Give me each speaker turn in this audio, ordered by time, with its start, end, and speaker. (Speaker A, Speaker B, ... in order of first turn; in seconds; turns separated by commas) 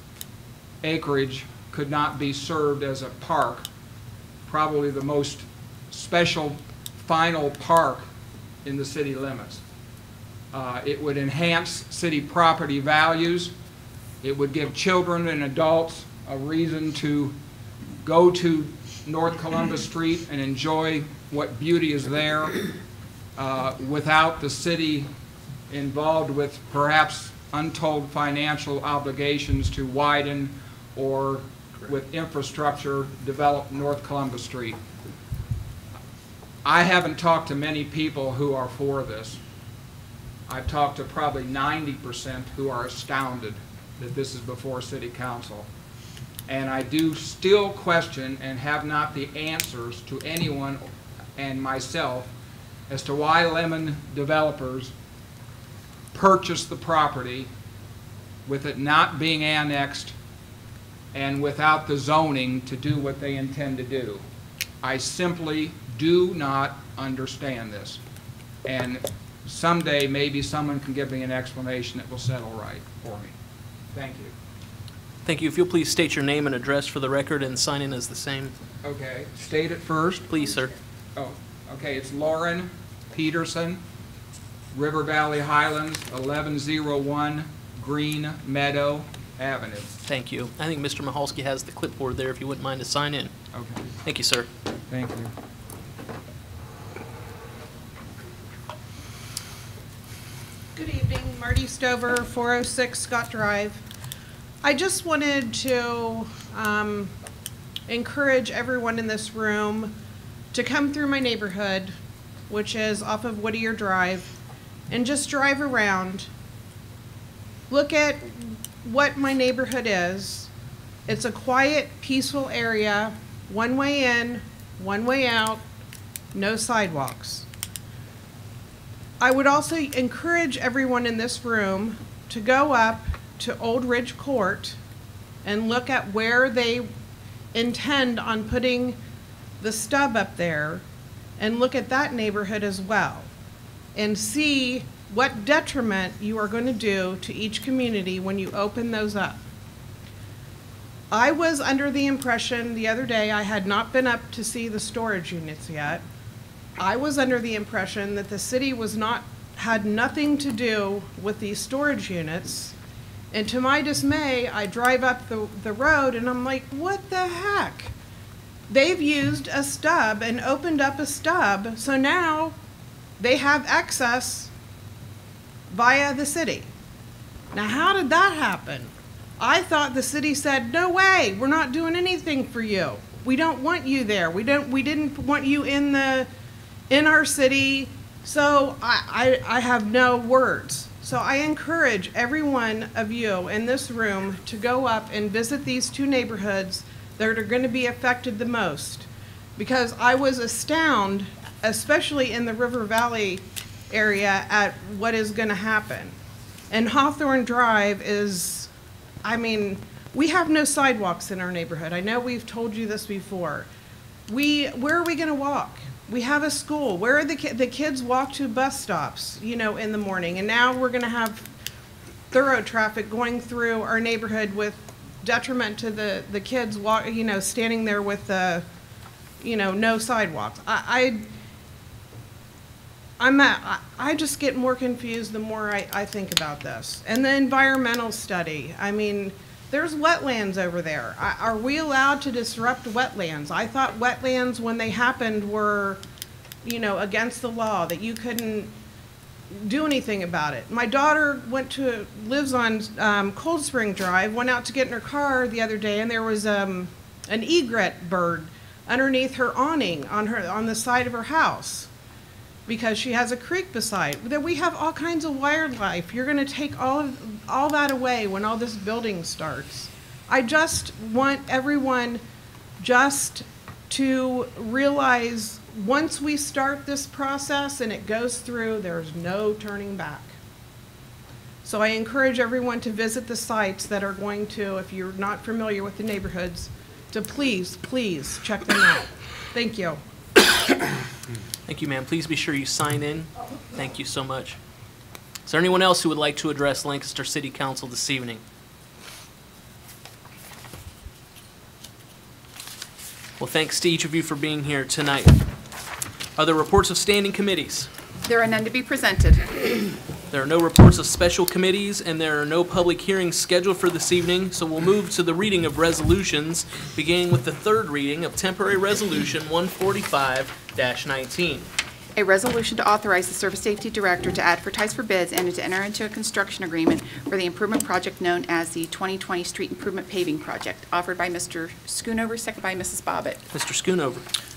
Speaker A: 0.8-3.7, Speaker A: 4.5-8.1, Speaker A: 8.6-9.6, Speaker A: 10.5-13.5, Speaker A: 14.2-17.4, Speaker A: 18.0-22.6, Speaker A: 23.4-25.1, Speaker A: 25.7-34.8, Speaker A: 36.6-39.4, Speaker A: 40.5-45.7, Speaker A: 46.5-52.3, Speaker A: 52.9-54.9, Speaker A: 56.1-57.5, Speaker A: 58.5-60.1, Speaker A: 61.1-64.2, Speaker A: 64.8-68.0, Speaker A: 68.6-73.3, Speaker A: 73.9-74.3, Speaker B: 75.2-78.6, Speaker A: 78.8-80.5, Speaker B: 80.3-80.7, Speaker A: 81.2-83.8, Speaker A: 84.7-89.9, Speaker B: 90.0-93.3, Speaker A: 93.5-93.9, Speaker B: 94.0-94.5, Speaker A: 94.9-95.3, Speaker C: 100.7-103.8, Speaker C: 104.6-107.1, Speaker C: 107.9-110.0, Speaker C: 110.5-111.9, Speaker C: 112.5-114.3, Speaker C: 114.9-116.3, Speaker C: 117.7-120.5, Speaker C: 121.1-125.6, Speaker C: 126.3-127.5, Speaker C: 129.2-134.8, Speaker C: 135.4-136.9, Speaker C: 137.5-139.0, Speaker C: 139.6-140.8, Speaker C: 141.4-143.3, Speaker C: 143.9-149.4, Speaker C: 151.1-156.0, Speaker C: 156.8-162.7, Speaker C: 163.3-167.9, Speaker C: 168.7-172.5, Speaker C: 173.2-174.5, Speaker C: 175.7-176.7, Speaker C: 177.5-186.3, Speaker C: 186.9-206.2, Speaker C: 206.7-208.7, Speaker C: 209.2-213.7, Speaker C: 214.3-221.5, Speaker C: 222.3-228.7, Speaker C: 229.4-231.3, Speaker C: 233.2-246.0, Speaker C: 246.6-248.7, Speaker C: 249.5-261.9, Speaker C: 262.7-272.2, Speaker C: 272.8-280.3, Speaker C: 281.6-290.0, Speaker B: 291.7-294.6, Speaker B: 295.4-298.4, Speaker B: 303.4-305.4, Speaker B: 306.4-307.9, Speaker D: 308.2-309.5, Speaker B: 310.3-321.7, Speaker D: 322.1-333.4, Speaker B: 333.5-334.2